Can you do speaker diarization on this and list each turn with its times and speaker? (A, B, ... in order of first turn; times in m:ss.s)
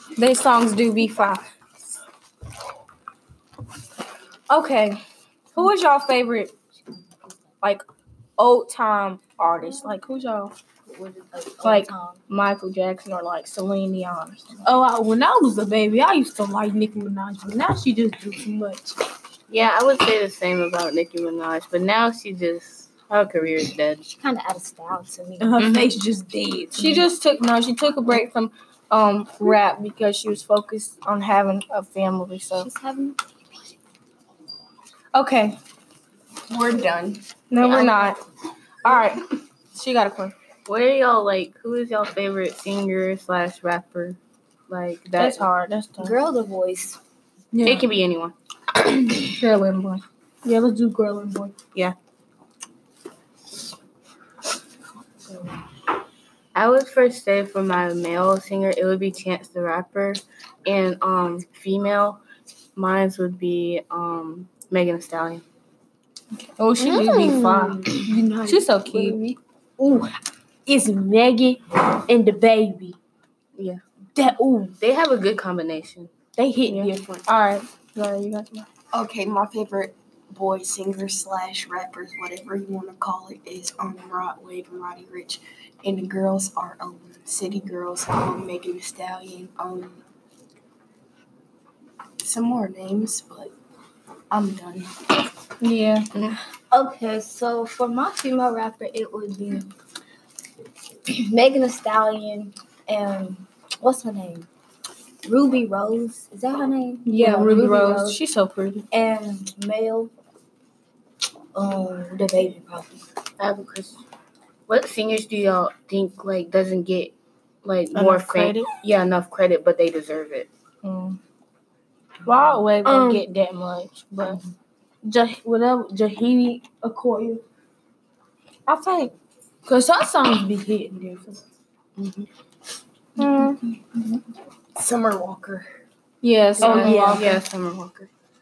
0:00.2-0:01.4 A
0:04.5-0:05.0 A
0:05.5-0:06.5 A
0:08.4-0:10.5 A
0:10.9-0:12.2 B
0:11.6-0:14.6 A
0:14.6-0:19.0 C
0:19.5-0:24.0 D
0:24.1-0:25.7 B
0:25.4-0:27.0 C
0:25.6-0:25.9 A
0:26.7-0:32.7 A
0:31.9-0:32.6 D
0:32.6-0:33.2 B
0:35.1-0:35.6 A
0:36.5-0:37.2 E
0:37.5-0:38.2 A
0:37.6-0:38.1 B
0:38.8-0:40.3 A
0:40.6-0:44.2 D
0:44.7-0:45.4 D
0:45.2-0:46.2 A
0:46.0-0:47.0 B
0:47.6-0:48.3 D
0:49.0-0:50.0 A
0:50.4-0:51.5 C
0:56.5-1:02.2 D
1:02.8-1:05.4 D
1:06.6-1:07.8 A
1:07.0-1:08.1 D
1:07.3-1:10.1 C
1:08.4-1:09.2 A
1:10.6-1:13.0 C
1:13.6-1:13.8 D
1:14.1-1:14.7 C
1:14.7-1:16.8 D
1:16.4-1:17.1 C
1:16.7-1:18.7 A
1:18.9-1:30.0 E
1:32.2-1:33.5 E
1:34.3-1:35.2 E
1:35.6-1:36.1 A
1:36.7-1:39.7 B
1:41.1-1:44.5 B
1:45.2-1:48.2 B
1:47.0-1:48.8 A
1:48.9-1:50.1 B
1:51.5-1:53.0 B
1:53.4-1:54.0 D
1:54.7-1:57.1 D
1:57.6-2:00.5 D
1:58.0-1:58.6 C
2:02.3-2:03.2 A
2:02.5-2:04.4 D
2:05.1-2:05.3 D
2:06.7-2:07.4 C
2:09.7-2:11.4 C
2:12.0-2:12.3 D
2:13.2-2:13.6 A
2:16.2-2:17.3 A
2:16.6-2:17.3 C
2:17.1-2:18.1 D